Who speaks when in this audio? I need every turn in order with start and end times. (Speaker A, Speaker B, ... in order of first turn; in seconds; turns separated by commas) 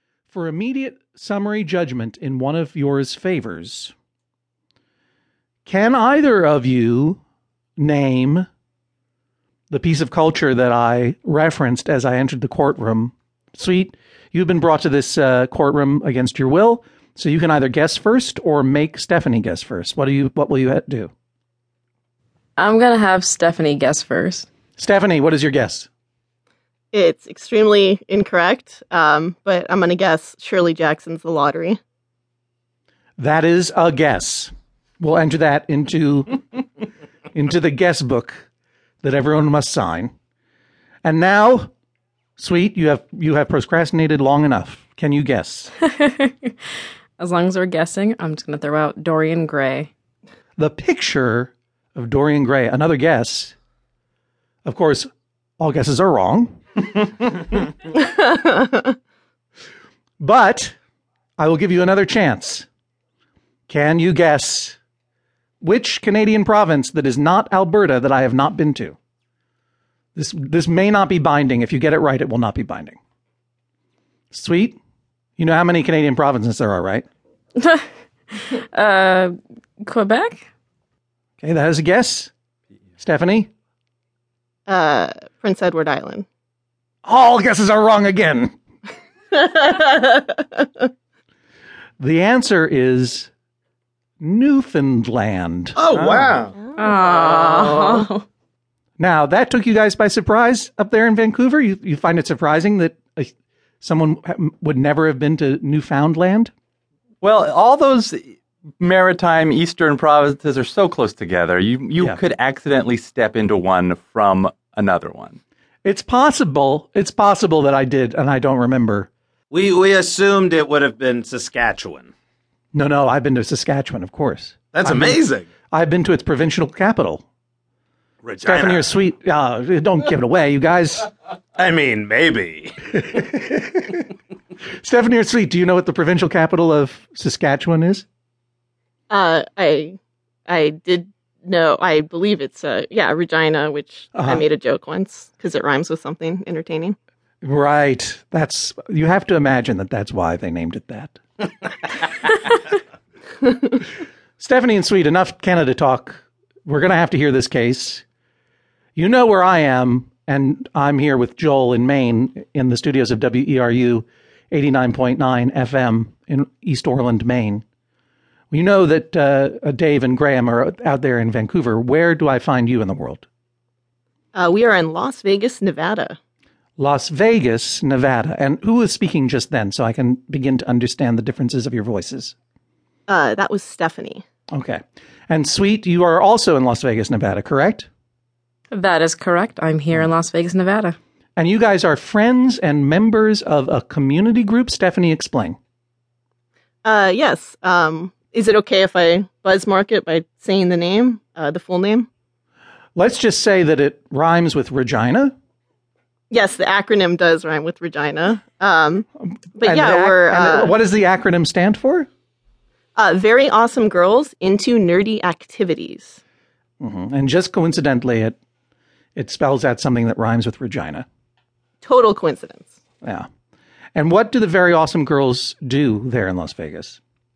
Speaker A: 0.3-3.9, Speaker A: 5.7-7.2, Speaker A: 7.8-8.5, Speaker A: 9.7-21.1, Speaker B: 22.6-24.5, Speaker A: 24.8-25.9, Speaker C: 26.9-31.8, Speaker A: 33.2-36.6, Speaker A: 37.3-38.4, Speaker A: 39.0-40.1, Speaker A: 41.0-41.7, Speaker A: 42.4-45.8, Speaker B: 45.8-46.5, Speaker B: 47.2-49.9, Speaker A: 50.6-53.5, Speaker A: 54.6-55.1, Speaker A: 55.6-56.6, Speaker C: 58.0-58.9, Speaker A: 60.2-60.7, Speaker A: 61.4-62.7, Speaker A: 63.7-64.8, Speaker A: 65.6-69.0, Speaker A: 70.2-73.0, Speaker A: 74.3-74.8, Speaker A: 75.4-77.0, Speaker B: 77.6-80.4, Speaker A: 81.4-82.3, Speaker A: 83.0-83.5, Speaker C: 84.7-86.2, Speaker A: 87.0-88.5, Speaker C: 89.3-90.9, Speaker A: 92.0-93.3, Speaker A: 94.2-96.4, Speaker D: 95.8-96.6, Speaker C: 96.6-98.1, Speaker B: 96.8-98.2, Speaker A: 99.0-106.5, Speaker E: 107.2-115.4, Speaker A: 115.8-119.1, Speaker D: 119.5-122.1, Speaker A: 122.7-125.2, Speaker D: 124.7-125.5, Speaker A: 125.7-127.2, Speaker D: 128.2-128.9, Speaker A: 128.4-131.1, Speaker D: 131.6-133.0, Speaker A: 133.0-134.0, Speaker A: 134.8-138.1, Speaker C: 139.1-140.0, Speaker C: 140.5-146.9, Speaker A: 144.1-144.4, Speaker A: 147.4-151.2, Speaker A: 154.4-158.0, Speaker A: 158.9-167.6, Speaker A: 168.5-173.2, Speaker C: 174.3-176.2, Speaker A: 176.8-182.3, Speaker C: 183.1-184.2, Speaker A: 184.5-187.9, Speaker B: 188.7-191.0, Speaker A: 191.3-195.6, Speaker C: 196.8-202.1, Speaker A: 202.9-205.3, Speaker C: 206.3-209.0, Speaker A: 209.2-212.1, Speaker C: 209.6-210.7, Speaker C: 212.9-216.2, Speaker A: 216.8-218.4, Speaker A: 219.2-221.1, Speaker C: 221.8-222.7, Speaker A: 223.0-223.3, Speaker A: 223.9-227.0